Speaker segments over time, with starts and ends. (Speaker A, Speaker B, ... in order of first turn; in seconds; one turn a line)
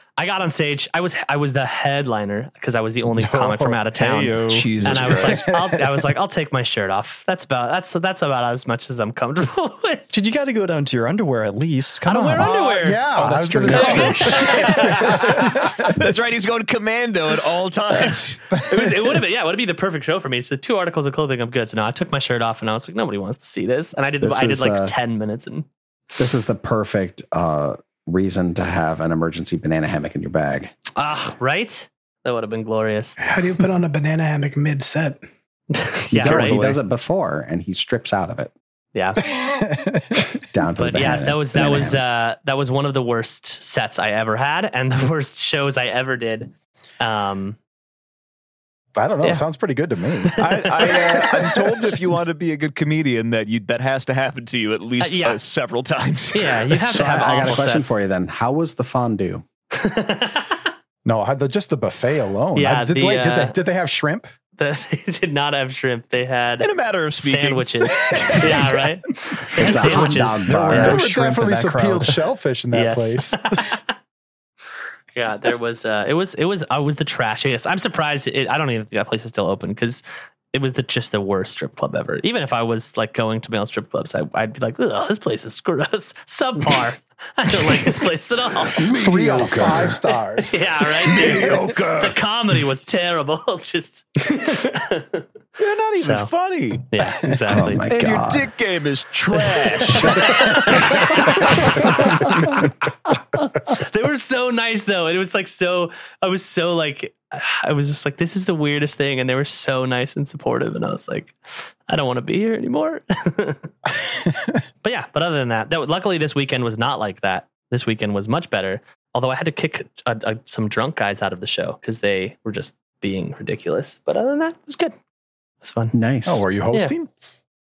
Speaker A: 0.2-10.0
Speaker B: 3.1-3.8
Speaker C: 4.0-4.7
Speaker D: 4.4-5.4
Speaker B: 4.8-6.0
Speaker C: 10.1-14.8
Speaker A: 12.1-13.1
Speaker B: 12.3-16.1
Speaker A: 13.6-15.7
Speaker D: 13.7-18.6
Speaker B: 18.6-18.9
Speaker A: 18.7-25.7
Speaker E: 24.2-24.9
Speaker E: 26.2-30.7
Speaker A: 31.0-33.2
Speaker F: 33.2-35.2
Speaker A: 35.7-36.8
Speaker E: 36.1-38.5
Speaker A: 39.0-39.2
Speaker B: 39.2-40.3
Speaker E: 40.5-42.0
Speaker A: 40.8-47.6
Speaker B: 49.0-52.1
Speaker A: 50.4-51.0
Speaker D: 50.4-56.8
Speaker A: 55.0-55.4
Speaker A: 56.3-57.9
Speaker E: 56.9-59.5
Speaker A: 59.8-60.7
Speaker B: 61.0-64.3
Speaker A: 62.5-63.6
Speaker A: 64.6-71.0
Speaker D: 66.6-68.6
Speaker B: 68.1-68.4
Speaker E: 69.6-71.1
Speaker B: 69.6-73.7
Speaker C: 70.8-72.0
Speaker A: 72.7-73.9
Speaker A: 75.1-88.9
Speaker B: 88.9-91.7
Speaker D: 89.3-89.8
Speaker A: 90.4-95.2
Speaker D: 91.1-92.2
Speaker D: 95.6-96.9
Speaker A: 96.0-96.3
Speaker A: 96.9-97.8
Speaker E: 97.5-98.5
Speaker D: 97.9-102.5
Speaker A: 99.3-102.7
Speaker A: 103.6-113.7
Speaker B: 114.0-114.5
Speaker A: 114.8-125.0
Speaker A: 125.6-125.9
Speaker E: 125.9-126.5
Speaker B: 126.2-127.1